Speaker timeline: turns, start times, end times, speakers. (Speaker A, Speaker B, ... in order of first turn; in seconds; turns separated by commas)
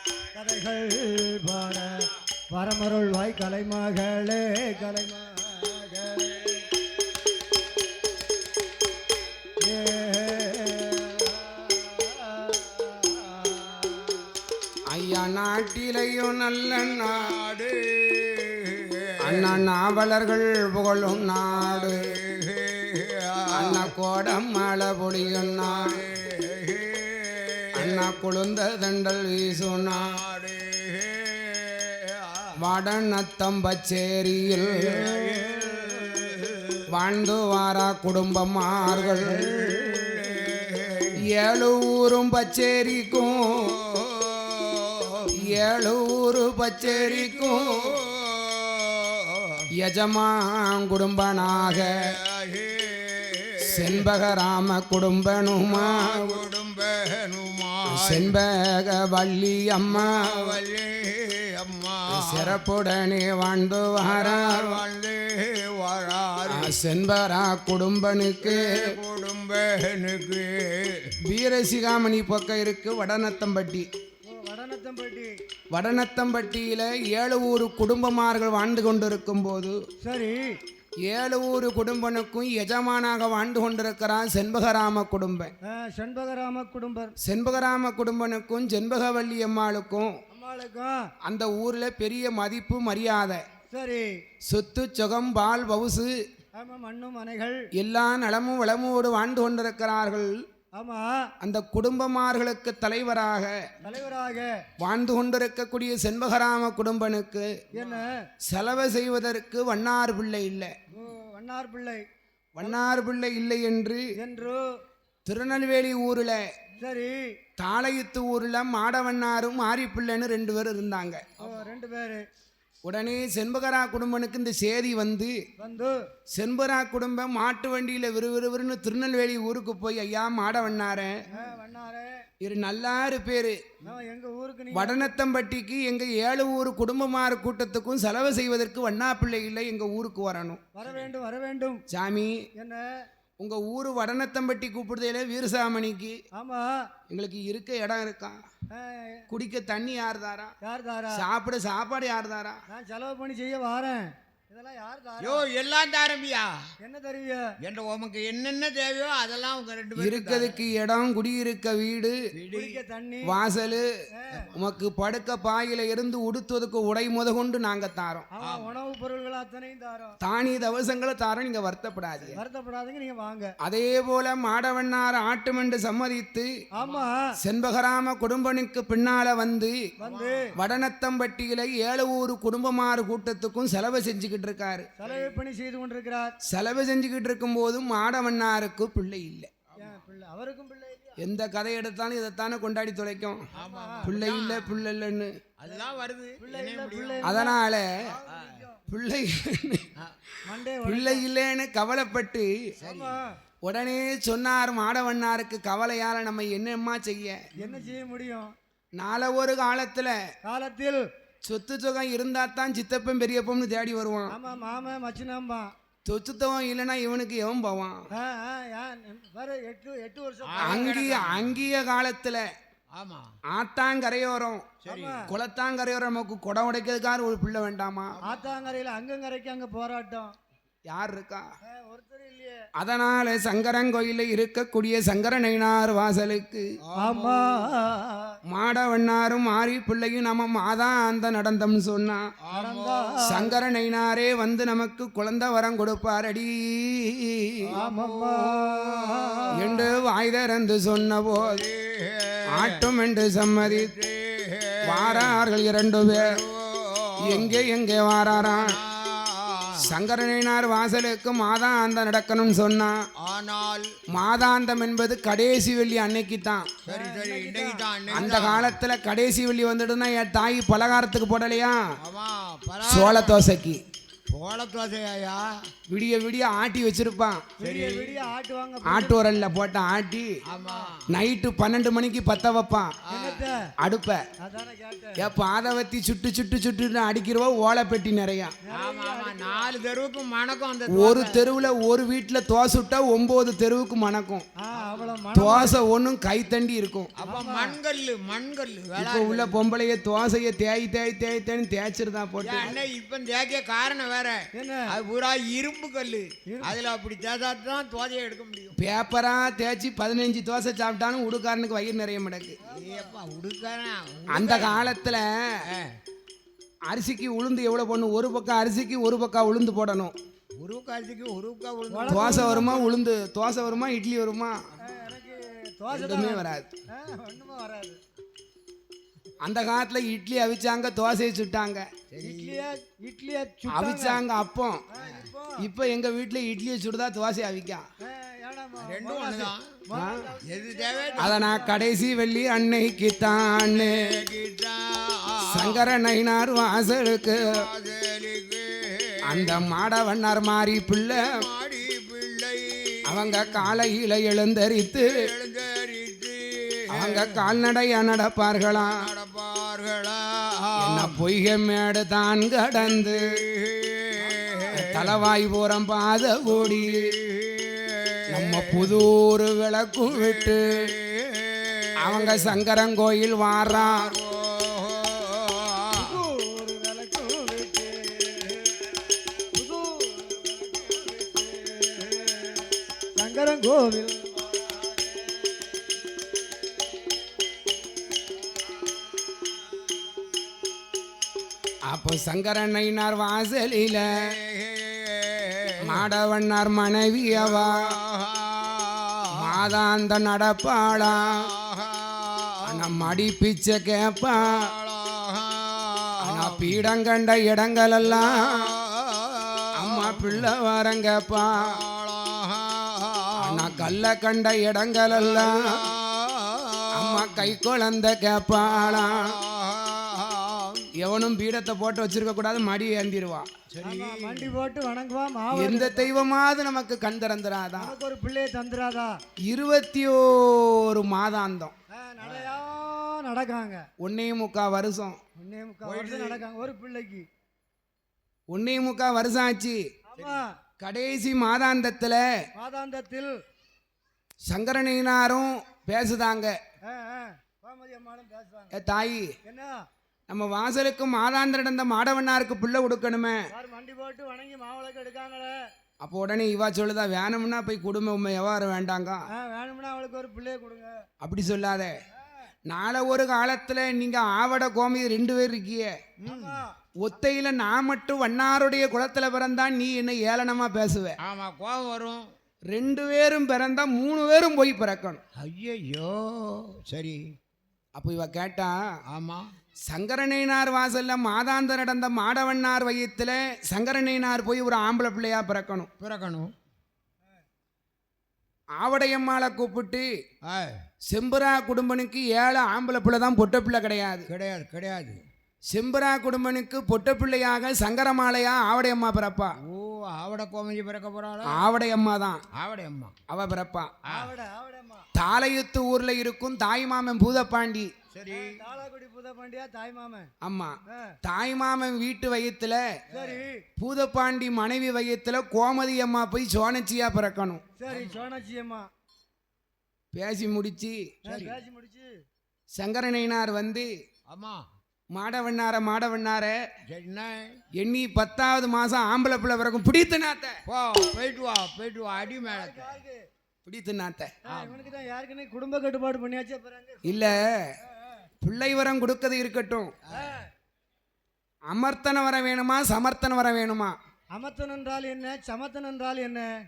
Speaker A: 0.3-6.7, Speaker A: 9.6-13.9, Speaker B: 14.9-17.2, Speaker C: 16.8-19.6, Speaker B: 19.2-22.1, Speaker C: 21.6-23.9, Speaker B: 23.5-26.0, Speaker C: 25.2-28.1, Speaker B: 27.7-30.2, Speaker C: 29.6-32.5, Speaker B: 32.6-35.1, Speaker C: 34.5-36.8, Speaker A: 35.1-36.3, Speaker B: 36.9-39.6, Speaker C: 38.8-41.1, Speaker A: 39.4-40.4, Speaker B: 41.2-43.8, Speaker C: 43.2-45.6, Speaker B: 45.3-47.9, Speaker C: 46.8-49.6, Speaker B: 49.8-52.0, Speaker C: 51.4-54.1, Speaker B: 53.6-56.4, Speaker C: 55.7-58.3, Speaker B: 57.9-60.6, Speaker C: 59.9-62.6, Speaker B: 62.1-64.8, Speaker C: 64.0-66.7, Speaker B: 66.4-68.9, Speaker C: 68.4-71.1, Speaker B: 71.2-73.9, Speaker A: 74.2-75.3, Speaker B: 75.7-79.7, Speaker A: 80.0-80.4, Speaker B: 81.1-85.5, Speaker A: 85.7-87.1, Speaker B: 87.2-90.1, Speaker A: 90.3-91.0, Speaker B: 91.2-93.4, Speaker A: 93.7-94.1, Speaker B: 94.5-96.1, Speaker A: 96.5-97.6, Speaker B: 97.8-100.3, Speaker A: 100.8-101.2, Speaker B: 101.4-103.5, Speaker A: 103.8-104.5, Speaker B: 104.8-107.5, Speaker A: 107.7-108.2, Speaker C: 107.7-108.0, Speaker B: 108.5-110.7, Speaker A: 110.9-112.0, Speaker B: 112.5-114.0, Speaker A: 112.6-112.9, Speaker A: 114.2-114.6, Speaker B: 115.2-116.4, Speaker A: 116.8-117.2, Speaker B: 117.6-121.2, Speaker C: 121.4-121.8, Speaker A: 121.4-122.2, Speaker B: 122.8-125.3, Speaker A: 125.6-125.9, Speaker B: 126.3-131.2, Speaker A: 131.3-132.2, Speaker B: 132.4-133.6, Speaker A: 133.8-135.1, Speaker B: 134.7-140.6, Speaker A: 140.7-141.8, Speaker C: 140.8-141.1, Speaker B: 141.9-142.4, Speaker A: 142.6-142.8, Speaker B: 143.4-146.1, Speaker A: 146.3-146.7, Speaker B: 147.1-148.4, Speaker A: 148.7-149.2, Speaker B: 149.3-150.5, Speaker A: 150.6-151.2, Speaker B: 151.1-152.6, Speaker A: 152.7-155.4, Speaker C: 155.2-156.5, Speaker A: 156.8-157.4, Speaker C: 157.6-160.6, Speaker B: 159.9-162.1, Speaker C: 162.3-162.8, Speaker A: 162.5-163.3, Speaker B: 163.3-163.8, Speaker C: 164.3-164.8, Speaker B: 164.6-168.3, Speaker A: 168.3-170.2, Speaker C: 168.4-168.7, Speaker B: 170.2-172.4, Speaker A: 172.3-173.5, Speaker B: 173.6-176.5, Speaker A: 176.8-177.2, Speaker C: 176.8-177.1, Speaker B: 177.4-179.8, Speaker A: 180.0-180.5, Speaker C: 180.0-180.5, Speaker B: 180.6-184.9, Speaker A: 185.0-186.3, Speaker C: 185.0-185.3, Speaker B: 186.5-189.5, Speaker C: 189.7-190.0, Speaker A: 189.8-191.2, Speaker B: 191.2-193.4, Speaker C: 193.6-194.8, Speaker A: 193.6-194.1, Speaker B: 194.0-195.3, Speaker C: 195.6-197.4, Speaker A: 196.4-198.8, Speaker B: 197.2-197.8, Speaker C: 198.3-198.6, Speaker B: 198.9-199.9, Speaker A: 200.4-201.2, Speaker B: 200.8-202.5, Speaker C: 202.8-203.2, Speaker A: 202.8-203.3, Speaker B: 203.6-207.4, Speaker A: 207.6-208.5, Speaker C: 207.6-207.9, Speaker B: 209.0-210.1, Speaker A: 210.4-211.0, Speaker B: 211.4-214.3, Speaker A: 214.3-215.7, Speaker B: 216.1-218.0, Speaker A: 218.1-220.9, Speaker C: 220.4-221.6, Speaker B: 220.6-222.4, Speaker C: 222.9-223.3, Speaker B: 223.5-224.7, Speaker C: 224.8-225.2, Speaker A: 224.9-225.3, Speaker B: 225.3-228.2, Speaker C: 228.2-228.6, Speaker A: 228.3-230.3, Speaker B: 230.9-231.4, Speaker A: 231.7-232.6, Speaker B: 232.8-236.6, Speaker C: 236.9-237.7, Speaker A: 237.0-238.3, Speaker B: 238.5-242.2, Speaker C: 242.4-243.2, Speaker A: 242.5-243.6, Speaker B: 243.3-247.6, Speaker C: 247.7-249.1, Speaker A: 247.8-249.8, Speaker B: 249.5-251.6, Speaker C: 251.4-252.8, Speaker B: 252.5-253.9, Speaker C: 253.6-255.4, Speaker B: 254.8-256.3, Speaker C: 256.1-257.6, Speaker B: 257.2-258.8, Speaker C: 258.3-259.8, Speaker B: 259.8-263.0, Speaker C: 263.2-263.9, Speaker B: 264.1-266.7, Speaker C: 266.9-268.8, Speaker A: 266.9-268.3, Speaker B: 268.1-271.8, Speaker C: 272.0-273.5, Speaker B: 272.8-273.8, Speaker C: 274.3-275.4, Speaker B: 275.9-277.5, Speaker A: 277.6-279.3, Speaker C: 277.6-278.2, Speaker B: 278.8-280.3, Speaker C: 280.5-281.0, Speaker A: 280.5-280.9, Speaker B: 281.1-282.9, Speaker C: 283.1-283.4, Speaker A: 283.1-283.6, Speaker B: 283.8-284.2, Speaker A: 284.4-285.3, Speaker B: 285.2-288.5, Speaker A: 288.6-289.7, Speaker C: 288.7-291.4, Speaker B: 290.9-294.4, Speaker A: 294.6-295.8, Speaker C: 294.8-295.2, Speaker B: 295.3-297.1, Speaker C: 297.2-299.6, Speaker A: 297.2-297.8, Speaker B: 298.9-302.7, Speaker C: 302.4-308.7, Speaker A: 304.5-304.9, Speaker A: 306.5-306.8, Speaker B: 308.8-312.6, Speaker A: 312.6-313.1, Speaker C: 312.7-314.9, Speaker B: 314.3-315.3, Speaker B: 316.9-320.1, Speaker C: 320.6-322.6, Speaker A: 321.9-322.9, Speaker B: 322.1-324.6, Speaker A: 324.8-328.0, Speaker B: 325.9-326.7, Speaker B: 329.4-331.8, Speaker C: 332.1-332.7, Speaker A: 332.2-334.2, Speaker B: 333.7-334.9, Speaker A: 334.9-335.6, Speaker C: 335.0-335.3, Speaker B: 335.6-337.8, Speaker A: 338.0-341.8, Speaker C: 338.8-339.6, Speaker C: 340.5-341.5, Speaker B: 341.2-343.9, Speaker C: 343.5-345.9, Speaker B: 345.5-347.6, Speaker C: 347.4-349.6, Speaker B: 349.3-351.3, Speaker C: 351.1-353.6, Speaker B: 353.1-355.2, Speaker C: 354.9-357.5, Speaker B: 356.9-359.0, Speaker C: 358.7-361.2, Speaker B: 360.8-363.3, Speaker C: 362.9-365.1, Speaker A: 364.2-364.8, Speaker B: 364.7-367.1, Speaker C: 366.6-368.9, Speaker B: 368.3-370.8, Speaker C: 370.1-372.6, Speaker B: 372.0-374.1, Speaker C: 373.6-376.1, Speaker A: 375.9-378.8, Speaker A: 379.5-382.6, Speaker A: 383.1-384.6, Speaker B: 391.9-394.3, Speaker C: 394.2-396.1, Speaker B: 395.8-397.9, Speaker C: 397.3-399.5, Speaker B: 399.3-401.5, Speaker C: 400.9-402.9, Speaker B: 402.6-404.6, Speaker C: 404.4-406.8, Speaker B: 406.2-408.7, Speaker C: 408.0-410.5, Speaker B: 409.7-411.8, Speaker C: 411.7-413.9, Speaker B: 413.4-415.9, Speaker C: 415.1-417.6, Speaker B: 416.9-419.3, Speaker C: 418.6-420.9, Speaker B: 421.0-423.5, Speaker C: 423.7-424.5, Speaker A: 423.8-426.1, Speaker B: 425.6-427.9, Speaker A: 427.8-429.1, Speaker B: 429.5-431.7, Speaker A: 431.9-433.8, Speaker C: 432.2-432.6, Speaker B: 434.0-435.2, Speaker A: 435.4-437.2, Speaker C: 435.8-436.4, Speaker B: 438.5-439.8, Speaker A: 440.1-440.5, Speaker B: 440.8-442.2, Speaker A: 442.6-443.3, Speaker B: 444.5-446.5, Speaker A: 446.8-448.7, Speaker B: 448.7-449.3, Speaker A: 449.4-449.7, Speaker B: 450.3-453.4, Speaker A: 453.5-455.6, Speaker B: 456.0-459.2, Speaker A: 459.3-461.0, Speaker B: 461.2-461.9, Speaker B: 462.7-465.9, Speaker C: 466.2-466.6, Speaker A: 466.2-466.7, Speaker B: 467.0-471.1, Speaker C: 471.2-472.2, Speaker B: 472.7-475.2, Speaker C: 475.4-477.2, Speaker B: 477.9-478.8, Speaker C: 479.1-479.4, Speaker B: 479.9-485.9, Speaker C: 486.0-486.5, Speaker B: 488.8-490.1, Speaker C: 490.5-490.8, Speaker B: 491.1-494.2, Speaker C: 494.3-495.2, Speaker B: 495.7-499.5, Speaker C: 499.7-501.6, Speaker B: 501.5-502.4, Speaker C: 502.6-503.1, Speaker B: 503.3-503.9, Speaker C: 504.1-504.3, Speaker A: 504.1-505.1, Speaker B: 505.1-507.9, Speaker C: 508.1-508.6, Speaker A: 508.3-510.3, Speaker B: 510.4-512.8, Speaker A: 510.9-511.1, Speaker C: 513.1-513.4, Speaker A: 513.1-513.6, Speaker B: 513.8-517.6, Speaker A: 517.8-518.9, Speaker C: 517.9-518.2, Speaker B: 520.1-521.0, Speaker C: 521.2-521.5, Speaker A: 521.3-522.1, Speaker B: 522.7-523.9, Speaker C: 524.3-524.6, Speaker B: 525.1-526.6, Speaker C: 526.9-527.5, Speaker B: 527.7-530.5, Speaker C: 530.7-533.0, Speaker A: 532.1-533.2, Speaker B: 533.6-534.3, Speaker C: 534.5-534.9, Speaker A: 534.5-538.2, Speaker B: 537.0-537.5, Speaker B: 538.4-539.9, Speaker A: 540.1-540.5, Speaker B: 541.7-544.0, Speaker A: 544.3-546.5